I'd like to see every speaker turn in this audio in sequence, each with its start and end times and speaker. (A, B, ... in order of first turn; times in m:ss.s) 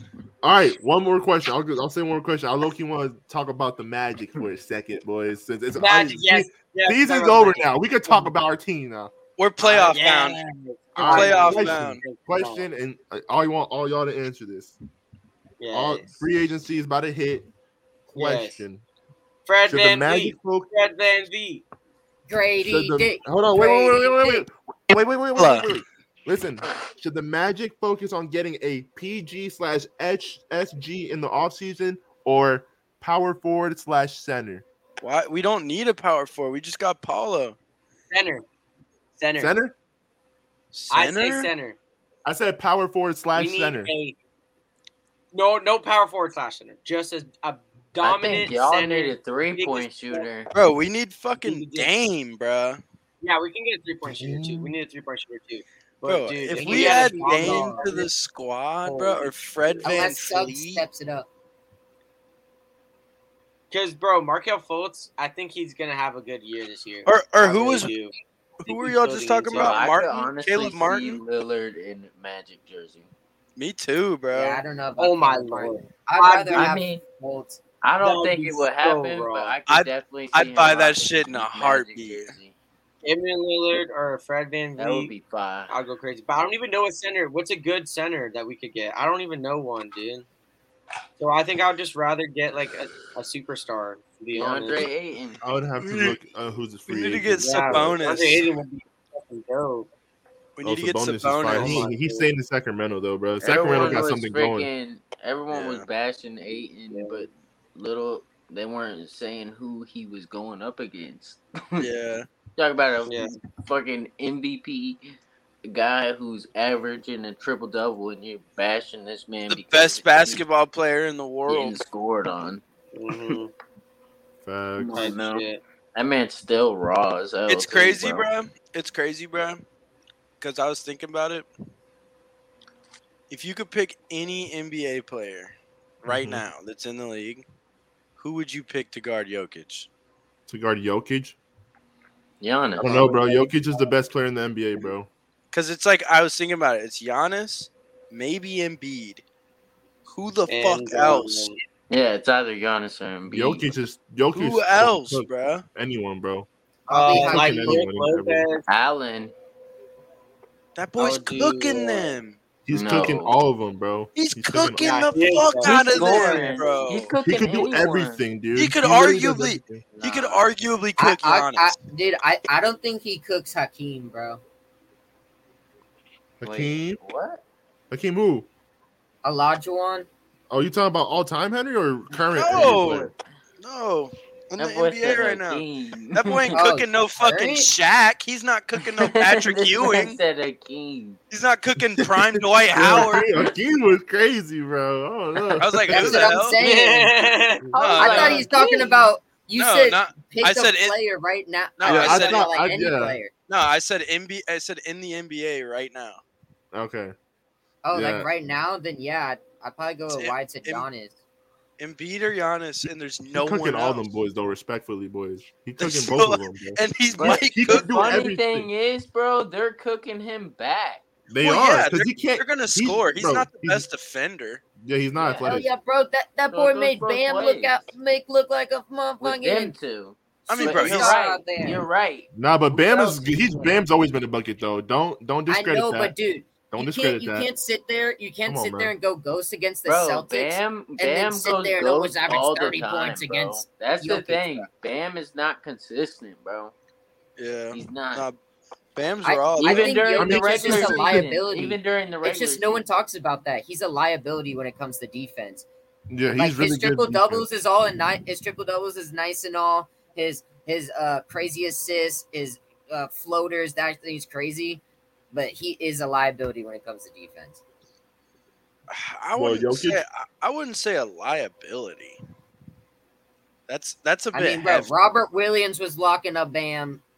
0:00.4-0:09.1 A
0:05.8-0:08.3 B
0:09.4-0:10.4 C
0:09.6-0:12.6 B
0:11.0-0:14.8 A
0:11.0-0:12.0 C
0:15.6-0:16.2 B
0:15.7-0:17.5 A
0:18.1-0:18.8 A
0:18.1-0:18.6 B
0:19.5-0:21.6 B
0:19.7-0:20.7 A
0:22.3-0:24.4 D
0:22.6-0:34.6 A
0:25.4-0:25.7 C
0:35.0-0:37.6 C
0:38.1-0:38.4 B
0:39.2-0:39.6 B
0:39.4-0:39.8 A
0:40.7-0:41.5 C
0:40.9-0:41.8 B
0:42.2-0:43.9 A
0:43.4-0:44.2 B
0:45.3-0:50.3 B
0:48.0-0:50.5 E
0:50.5-0:52.8 C
0:51.4-0:51.9 B
0:53.2-0:58.1 B
0:54.0-0:54.8 A
0:56.0-1:00.8 C
0:56.5-0:57.9 D
0:58.8-0:59.3 B
0:59.8-1:01.3 D
1:03.7-1:09.9 B
1:07.1-1:07.9 C
1:08.6-1:11.2 C
1:09.5-1:13.1 E
1:13.6-1:14.6 C
1:14.3-1:17.6 D
1:15.0-1:16.8 B
1:16.6-1:17.0 E
1:17.8-1:22.6 E
1:18.0-1:19.6 B
1:19.7-1:22.3 C
1:23.0-1:25.1 B
1:24.8-1:25.7 E
1:25.7-1:30.3 B
1:31.2-1:34.9 B
1:34.4-1:35.4 E
1:35.4-1:38.0 A
1:35.8-1:36.2 C
1:36.9-1:38.5 C
1:37.4-1:39.9 B
1:40.6-1:41.9 C
1:40.6-1:44.7 A
1:41.5-1:42.3 B
1:43.4-1:51.9 E
1:45.5-1:45.8 C
1:46.9-1:47.3 B
1:51.8-1:52.3 C
1:52.6-1:55.0 E
1:53.1-1:53.4 B
1:55.6-2:00.4 E
1:59.5-2:01.8 C
2:01.5-2:02.6 E
2:02.9-2:03.5 B
2:04.4-2:05.1 A
2:04.8-2:08.3 E
2:04.9-2:05.6 B
2:07.5-2:09.6 C
2:10.4-2:11.5 C
2:13.3-2:17.4 C
2:16.1-2:16.4 A
2:18.2-2:19.9 C
2:20.5-2:21.4 A
2:22.4-2:23.5 E
2:22.8-2:25.1 A
2:22.8-2:23.3 B
2:25.5-2:29.2 C
2:30.1-2:31.5 C
2:30.5-2:31.6 B
2:31.9-2:33.7 E
2:33.3-2:36.5 A
2:34.3-2:35.6 C
2:36.9-2:37.8 D
2:36.9-2:38.6 B
2:37.1-2:38.5 A
2:38.7-2:39.3 E
2:40.8-2:42.4 C
2:41.0-2:42.1 B
2:42.6-2:45.1 A
2:42.7-2:43.4 E
2:44.2-2:47.1 C
2:44.8-2:46.9 B
2:45.6-2:48.2 E
2:47.2-2:49.9 A
2:48.6-2:51.7 C
2:49.9-2:50.5 E
2:51.0-2:54.4 D
2:56.4-2:57.0 A
2:56.4-2:57.4 E
2:57.9-2:58.5 A
2:59.2-3:00.1 D
3:00.5-3:03.1 A
3:02.4-3:03.1 C
3:02.4-3:03.1 E
3:03.6-3:10.2 C
3:04.6-3:06.6 E
3:06.5-3:07.7 D
3:09.0-3:11.2 E
3:11.3-3:13.2 C
3:12.0-3:16.4 A
3:12.9-3:13.5 E
3:15.6-3:16.6 C
3:15.9-3:17.3 D
3:16.6-3:18.3 B
3:17.7-3:18.5 C
3:17.8-3:18.6 E
3:17.9-3:23.3 D
3:19.6-3:21.0 C
3:21.8-3:22.5 C
3:21.9-3:23.2 A
3:23.5-3:26.2 C
3:26.7-3:27.1 A
3:27.8-3:31.1 D
3:27.9-3:28.3 A
3:30.1-3:30.9 C
3:31.8-3:34.1 C
3:33.3-3:38.7 A
3:35.8-3:38.2 C
3:37.1-3:41.0 E
3:41.3-3:43.9 A
3:41.4-3:44.6 C
3:44.8-3:45.7 A
3:45.2-3:45.5 E
3:45.4-3:49.8 D
3:46.5-3:47.8 E
3:49.2-3:53.1 E
3:50.5-3:51.2 C
3:50.5-3:51.9 D
3:52.4-3:56.1 A
3:55.5-4:04.7 D
3:56.7-3:57.5 A
3:58.5-3:58.9 A
3:59.9-4:06.7 E
4:07.4-4:08.4 C
4:07.7-4:08.2 E
4:09.0-4:10.0 C
4:09.2-4:15.6 D
4:09.6-4:12.8 E
4:10.2-4:11.3 A
4:16.1-4:17.5 A
4:16.4-4:27.6 D
4:28.9-4:32.2 C
4:29.4-4:30.0 A
4:33.7-4:34.9 C
4:34.3-4:37.0 D